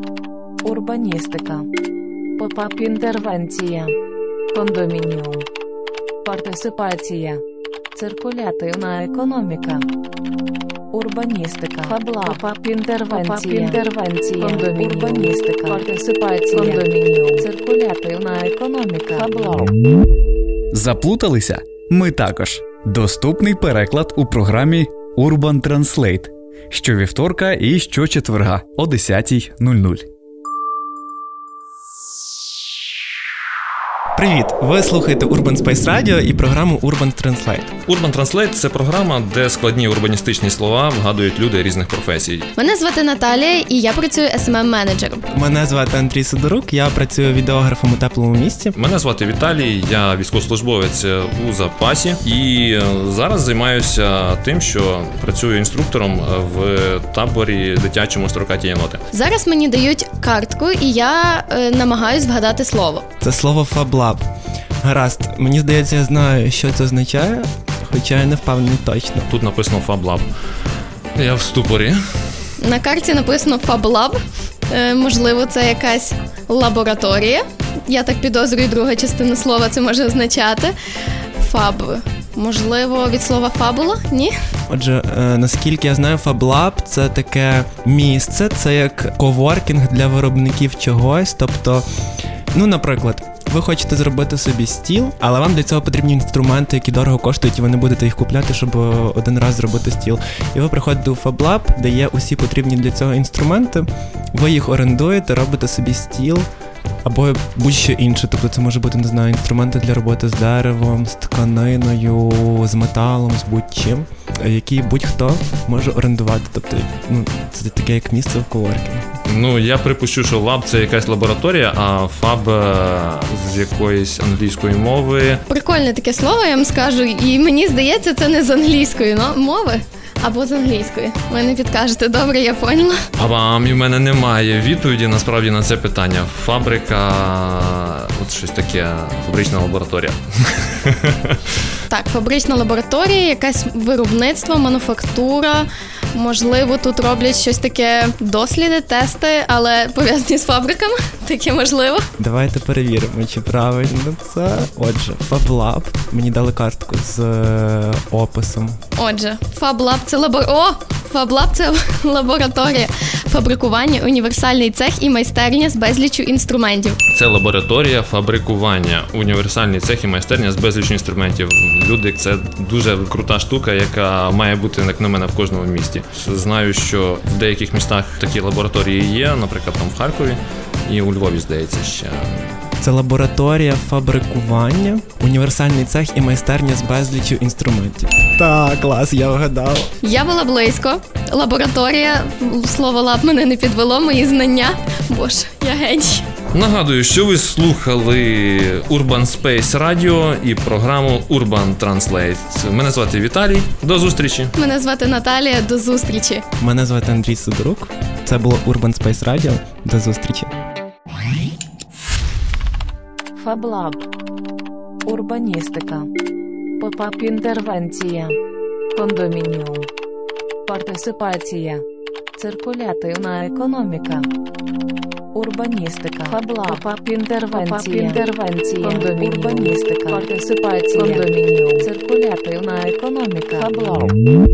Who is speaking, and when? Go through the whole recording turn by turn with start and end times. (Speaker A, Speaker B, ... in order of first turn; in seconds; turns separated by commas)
Speaker A: 0.6-1.7, Speaker A: 2.4-4.0, Speaker A: 4.5-5.5, Speaker A: 6.2-7.4, Speaker A: 8.0-9.9, Speaker A: 10.9-19.7, Speaker B: 20.7-30.1, Speaker C: 34.1-37.7, Speaker D: 37.9-42.5, Speaker E: 42.6-45.2, Speaker C: 45.3-48.8, Speaker D: 48.8-59.0, Speaker E: 59.1-63.1, Speaker C: 63.2-64.2, Speaker C: 64.8-69.3, Speaker D: 69.3-70.3, Speaker D: 71.2-72.0, Speaker E: 72.6-80.7, Speaker E: 81.4-84.3, Speaker C: 84.7-91.8, Speaker C: 92.5-106.5, Speaker C: 107.0-119.1, Speaker D: 119.3-125.4, Speaker E: 125.5-133.0, Speaker D: 133.2-141.4, Speaker E: 141.9-152.1, Speaker C: 152.2-158.8, Speaker E: 159.0-167.0, Speaker D: 167.1-182.6, Speaker C: 182.8-189.9, Speaker E: 190.0-196.3, Speaker D: 196.5-204.5, Speaker E: 204.6-206.4, Speaker C: 206.6-210.5, Speaker A: 213.3-214.1, Speaker A: 215.1-216.1, Speaker A: 216.8-218.4, Speaker A: 218.9-219.9, Speaker A: 220.7-221.8, Speaker A: 222.4-224.3, Speaker A: 225.3-234.1